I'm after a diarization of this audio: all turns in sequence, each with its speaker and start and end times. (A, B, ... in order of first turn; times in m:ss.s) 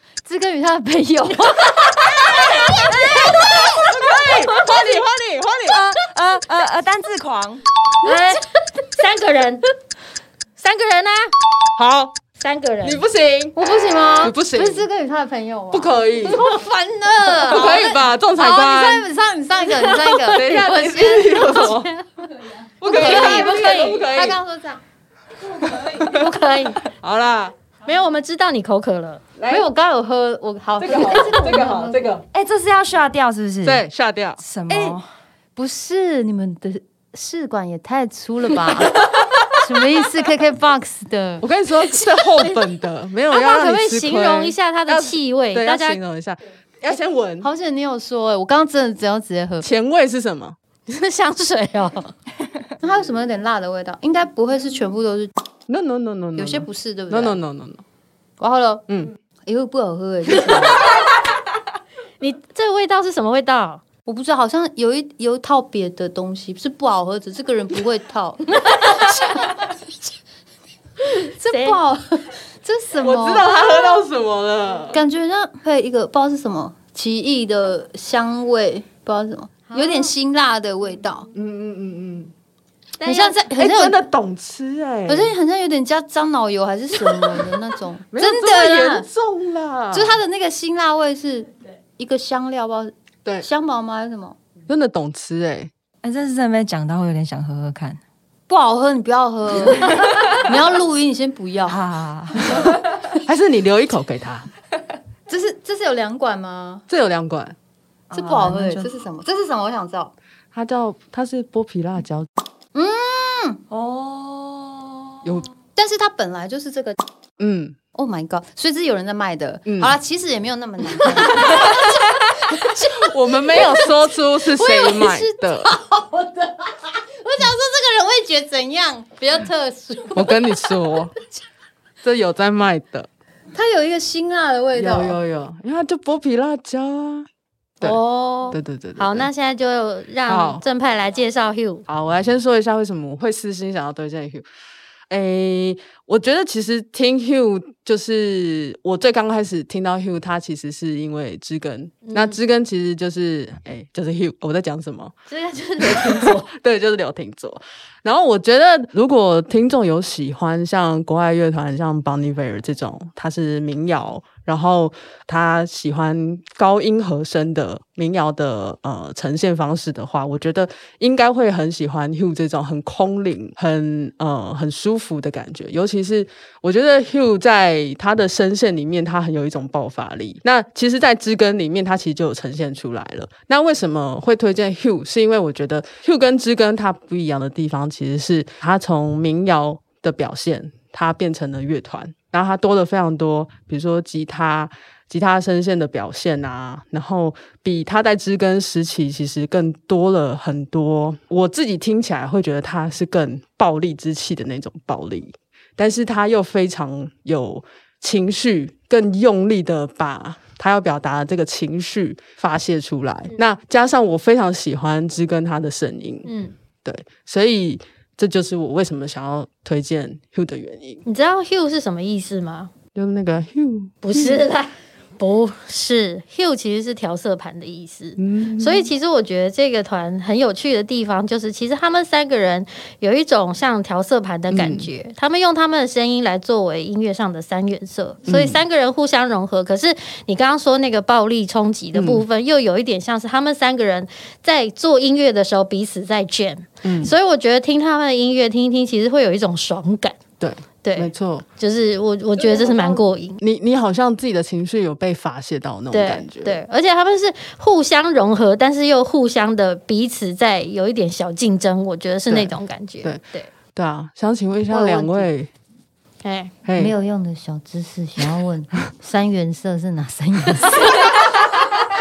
0:00.2-0:03.1 A
0:03.1-0:03.6 B
0:03.5-0:05.8 C
0:05.7-0:07.6 B
0:08.0-0:09.6 D
0:10.6-0:11.3 D
0:11.8-0:12.2 C
0:12.4-0:13.0 D
0:12.8-0:13.6 C
0:13.6-0:21.8 A
0:14.2-0:14.8 C
0:15.7-0:16.4 C
0:17.3-0:17.9 D
0:17.4-0:19.1 C
0:19.8-0:21.8 D
0:20.3-0:21.9 C
0:22.8-0:24.4 C
0:22.8-0:24.8 A
0:22.8-0:24.0 D
0:25.7-0:26.1 C
0:26.0-0:26.9 D
0:27.0-0:27.6 C
0:27.8-0:29.2 D
0:29.4-0:29.6 C
0:29.5-0:32.1 A
0:30.8-0:32.2 C
0:32.3-0:33.9 B
0:33.6-0:35.0 C
0:34.4-0:35.0 B
0:35.6-0:41.4 A
0:41.4-0:47.5 C
0:42.0-0:42.6 D
0:43.3-0:46.0 D
0:47.4-0:49.7 A
0:49.6-0:50.6 C
0:50.9-0:52.1 D
0:52.8-0:55.3 A
0:55.7-0:57.8 C
0:56.4-0:57.4 A
0:58.4-0:58.8 A
0:59.5-1:00.9 A
1:02.2-1:03.8 D
1:04.1-1:09.1 A
1:08.6-1:09.5 D
1:11.2-1:14.0 A
1:11.5-1:11.8 D
1:13.0-1:15.0 C
1:14.9-1:21.3 A
1:19.7-1:20.1 D
1:21.3-1:22.3 C
1:23.0-1:23.3 D
1:23.0-1:24.0 A
1:23.2-1:25.3 C
1:25.1-1:29.1 A
1:28.1-1:30.2 C
1:29.9-1:34.4 A
1:34.7-1:35.7 C
1:36.0-1:38.0 B
1:38.5-1:41.8 A
1:39.8-1:40.5 B
1:41.7-1:42.8 B
1:43.2-1:44.5 C
1:45.3-1:46.8 A
1:46.9-1:47.6 C
1:48.1-1:48.9 B
1:48.1-1:50.1 A
1:50.5-1:52.3 C
1:52.8-1:53.6 A
1:53.7-1:55.3 B
1:55.8-1:57.0 A
1:57.4-1:57.8 C
1:57.9-2:01.9 A
1:59.7-2:00.0 C
2:01.3-2:01.8 D
2:03.0-2:05.7 C
2:04.6-2:05.3 D
2:05.6-2:10.5 A
2:10.2-2:11.1 C
2:12.0-2:13.1 C
2:13.5-2:15.2 A
2:14.8-2:17.3 C
2:17.8-2:21.8 D
2:18.5-2:19.3 C
2:20.3-2:20.6 C
2:21.9-2:24.5 C
2:25.1-2:35.1 C
2:32.1-2:32.4 D
2:35.3-2:36.5 D
2:35.8-3:36.3 C
3:36.3-3:36.5 D
3:36.8-3:41.0 C
3:41.1-3:42.7 D
3:43.0-3:44.4 C
3:44.0-4:10.2 D
3:48.2-3:48.9 C
3:54.5-3:54.9 C
3:58.3-3:58.6 C
4:02.0-4:02.2 C
4:06.8-4:07.1 C
4:10.4-4:11.4 C
4:10.8-4:13.4 D
4:12.5-4:16.6 C
4:15.9-4:23.5 D
4:22.3-4:23.2 C
4:23.7-4:25.5 C
4:24.7-4:25.3 A
4:26.2-4:26.5 D
4:26.6-4:27.0 C
4:26.8-4:31.1 A